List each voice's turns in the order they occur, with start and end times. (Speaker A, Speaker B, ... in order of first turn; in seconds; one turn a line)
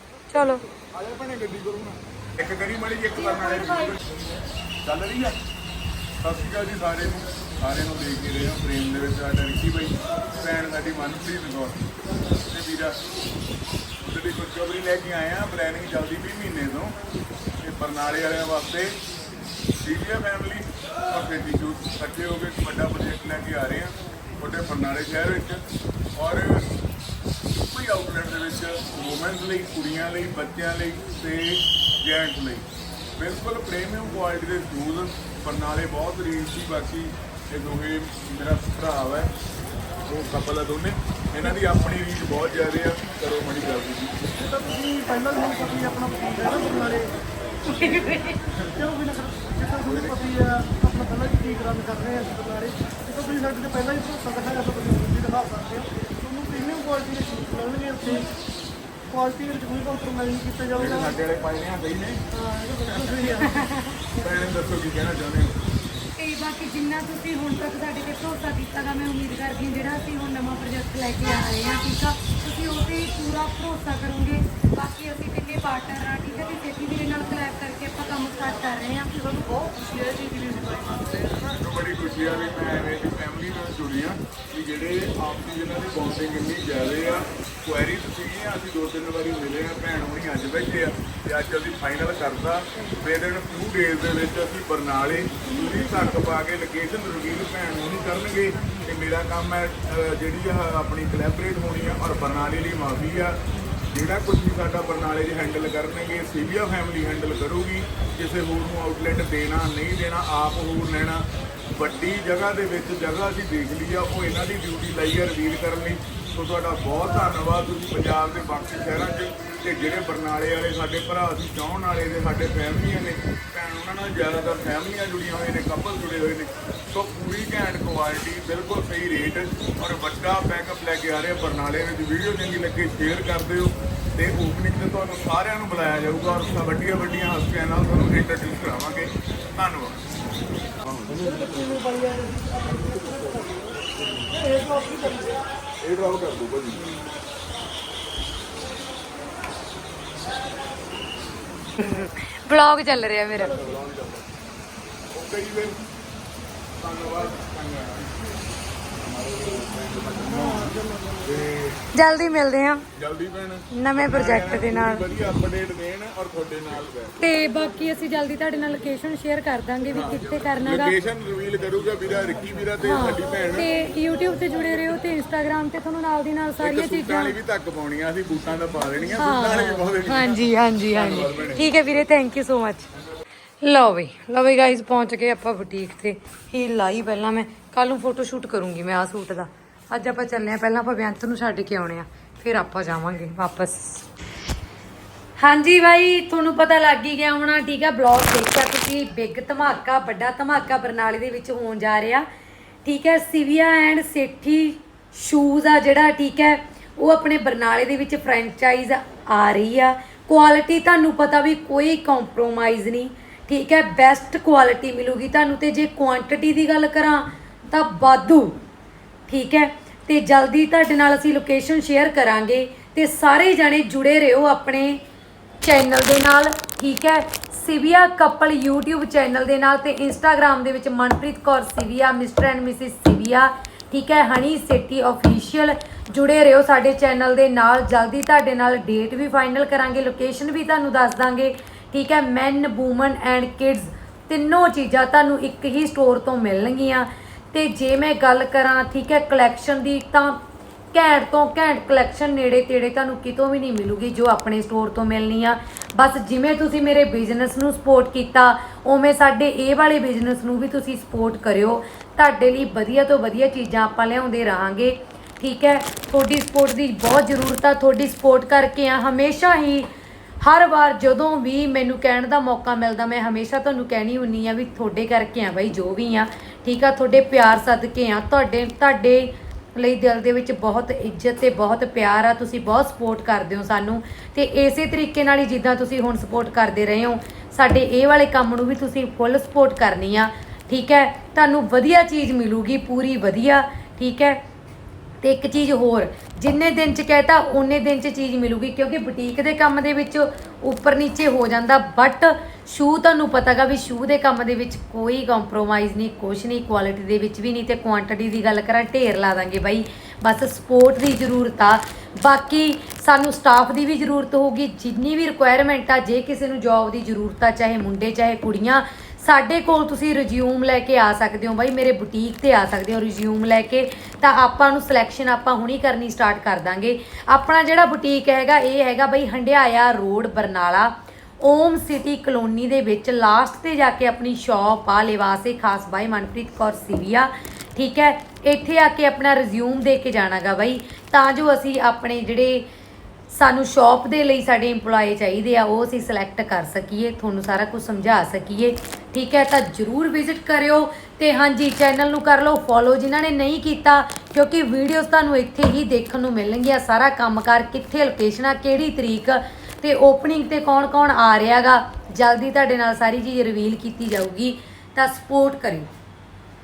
Speaker A: 0.3-0.7
Speaker B: 0.9-4.0
Speaker B: 4.8-5.4
Speaker B: 6.2-11.8
Speaker B: 12.5-13.0
Speaker B: 14.0-17.0
Speaker B: 17.6-19.0
Speaker B: 19.8-25.6
Speaker B: 26.1-26.7
Speaker B: 27.6-32.7
Speaker B: 33.2-39.3
Speaker B: 40.1-44.2
Speaker C: 44.4-47.1
Speaker A: 47.7-48.4
Speaker C: 48.8-58.3
Speaker B: 49.8-50.3
Speaker C: 59.1-60.8
Speaker B: 60.7-62.2
Speaker C: 62.5-63.5
Speaker A: 63.4-64.0
Speaker B: 64.1-65.6
Speaker A: 66.1-79.2
Speaker C: 79.5-81.4
Speaker B: 81.4-103.4
Speaker B: 103.9-140.0
Speaker B: 140.9-141.5
Speaker C: 141.3-143.3
Speaker B: 143.1-143.3
Speaker C: 144.5-145.4
Speaker B: 145.8-146.9
Speaker A: 151.8-153.6
Speaker B: 153.5-154.3
Speaker B: 155.1-155.8
Speaker B: 156.8-158.1
Speaker B: 159.0-161.8
Speaker C: 160.7-161.2
Speaker A: 161.9-162.9
Speaker B: 162.9-167.2
Speaker A: 163.7-165.0
Speaker A: 167.2-170.9
Speaker B: 169.9-173.7
Speaker A: 172.8-177.4
Speaker B: 176.6-181.7
Speaker A: 179.2-182.9
Speaker A: 183.6-194.1
Speaker A: 195.4-202.3
Speaker A: 202.8-218.6
Speaker A: 219.3-225.0
Speaker A: 225.6-250.4
Speaker A: 250.9-269.9
Speaker A: 270.4-294.4
Speaker A: 295.2-342.7
Speaker A: 343.3-365.9